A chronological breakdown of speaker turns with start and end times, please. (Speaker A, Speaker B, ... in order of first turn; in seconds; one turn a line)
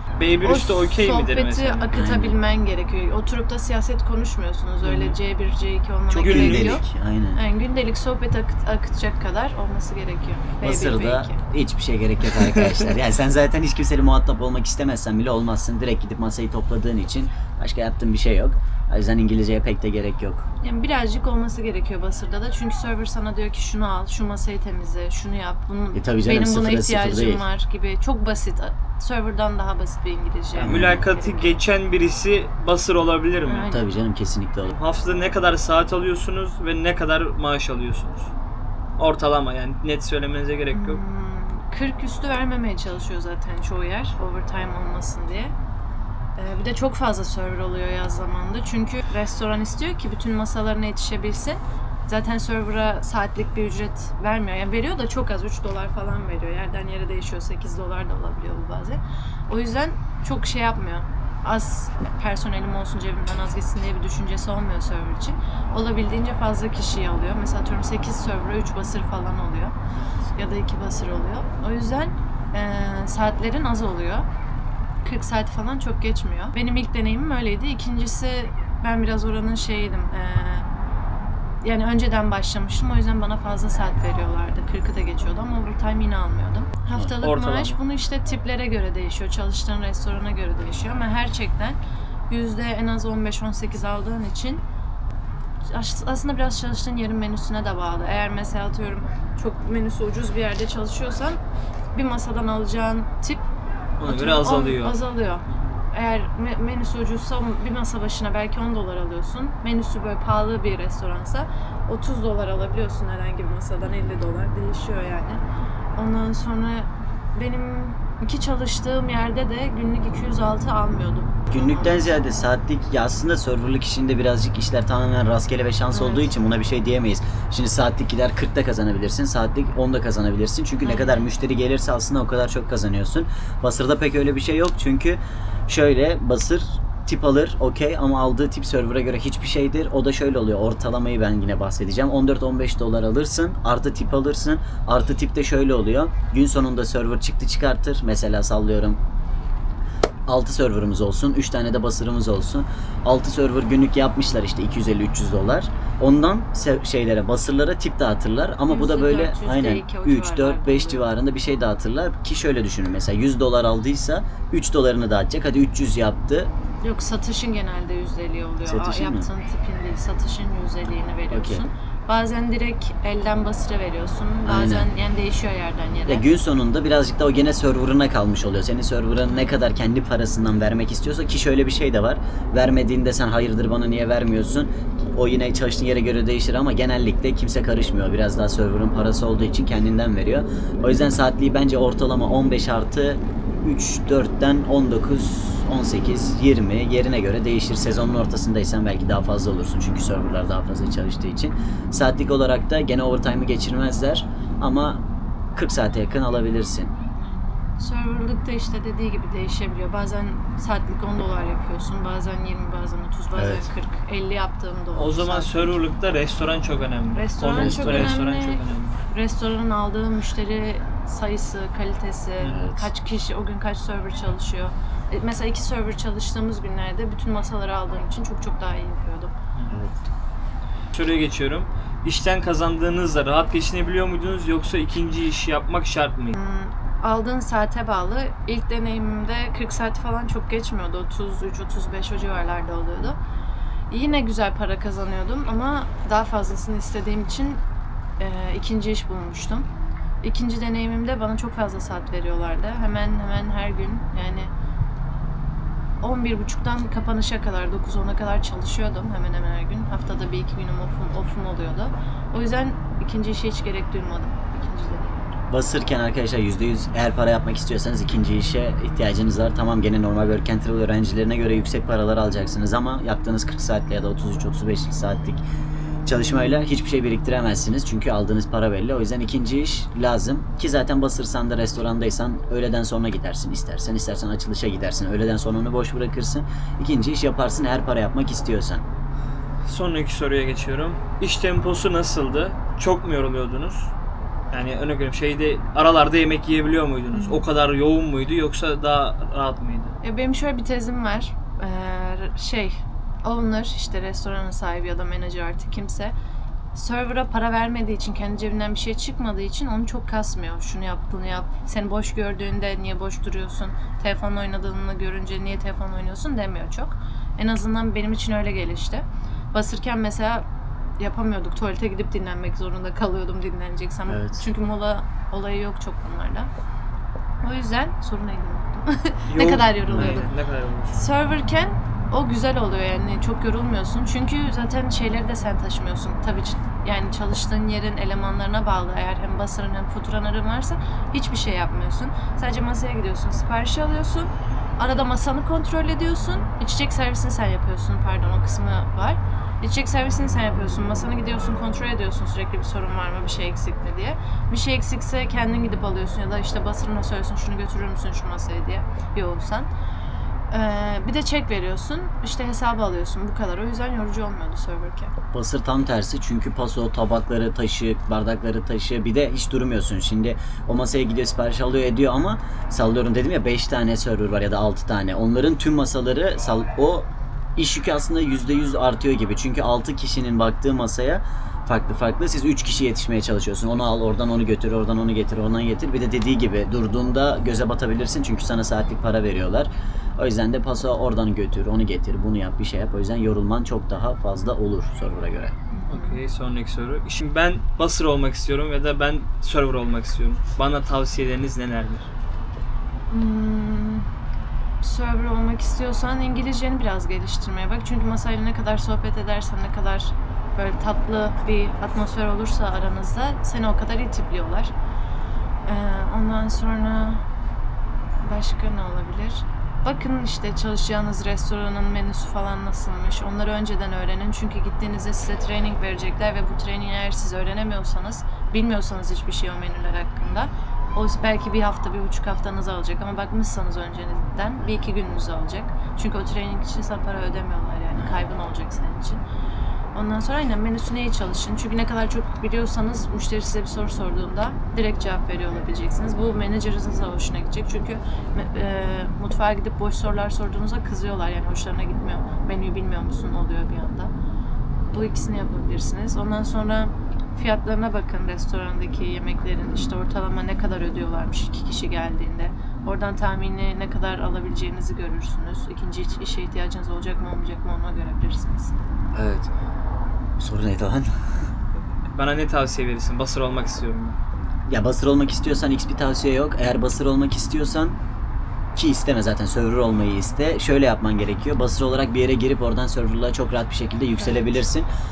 Speaker A: 0.2-2.2
Speaker B: 0.4-6.8
Speaker C: 1.9-2.3
Speaker A: 4.8-5.2
Speaker C: 6.1-7.4
Speaker A: 6.2-6.8
Speaker B: 7.3-11.4
Speaker C: 10.6-20.5
Speaker B: 20.6-31.6
Speaker C: 25.9-27.4
Speaker A: 30.6-33.7
Speaker C: 30.6-31.0
Speaker B: 33.5-33.9
Speaker C: 33.7-34.7
Speaker A: 34.7-38.3
Speaker A: 39.0-41.0
Speaker B: 40.7-45.5
Speaker B: 46.4-69.8
Speaker B: 70.3-74.2
Speaker B: 75.0-80.7
Speaker B: 81.6-91.8
Speaker A: 87.2-87.8
Speaker B: 92.3-94.6
Speaker B: 95.7-101.4
Speaker B: 101.9-103.5
Speaker A: 104.0-105.0
Speaker B: 104.1-115.4
Speaker B: 116.0-122.2
Speaker C: 121.5-149.0
Speaker B: 125.9-126.3
Speaker B: 130.8-131.3
Speaker C: 150.3-166.5
Speaker B: 158.7-161.1
Speaker B: 166.8-176.2
Speaker C: 168.7-169.3
Speaker C: 171.3-171.6
Speaker C: 174.5-174.9
Speaker C: 176.1-205.0
Speaker C: 205.6-206.9
Speaker B: 207.2-215.7
Speaker C: 213.3-213.7
Speaker A: 214.9-219.0
Speaker B: 217.1-229.3
Speaker C: 217.5-218.2
Speaker C: 222.5-222.9
Speaker C: 229.7-230.0
Speaker A: 230.9-236.3
Speaker B: 236.3-243.2
Speaker B: 243.9-247.6
Speaker B: 248.2-249.7
Speaker B: 250.2-254.5
Speaker B: 256.0-265.2
Speaker C: 265.5-275.4
Speaker C: 276.1-288.9
Speaker A: 289.6-293.9
Speaker A: 294.5-299.9
Speaker B: 297.1-297.5
Speaker B: 300.0-306.1
Speaker B: 306.7-320.4
Speaker B: 321.0-326.5
Speaker C: 324.1-324.4
Speaker B: 327.4-330.3
Speaker A: 329.3-331.0
Speaker C: 329.9-330.2
Speaker B: 330.9-359.7
Speaker B: 360.5-365.1
Speaker C: 365.3-395.6
Speaker B: 395.7-396.2
Speaker A: 395.9-402.1
Speaker B: 403.1-404.1
Speaker B: 404.8-414.7
Speaker B: 415.7-417.2
Speaker B: 418.2-439.2
Speaker B: 439.9-454.1
Speaker B: 454.9-468.7
Speaker C: 469.1-469.5
Speaker C: 470.4-471.1
Speaker A: 472.1-474.2
Speaker C: 474.7-478.0
Speaker C: 478.8-484.9
Speaker B: 484.2-484.6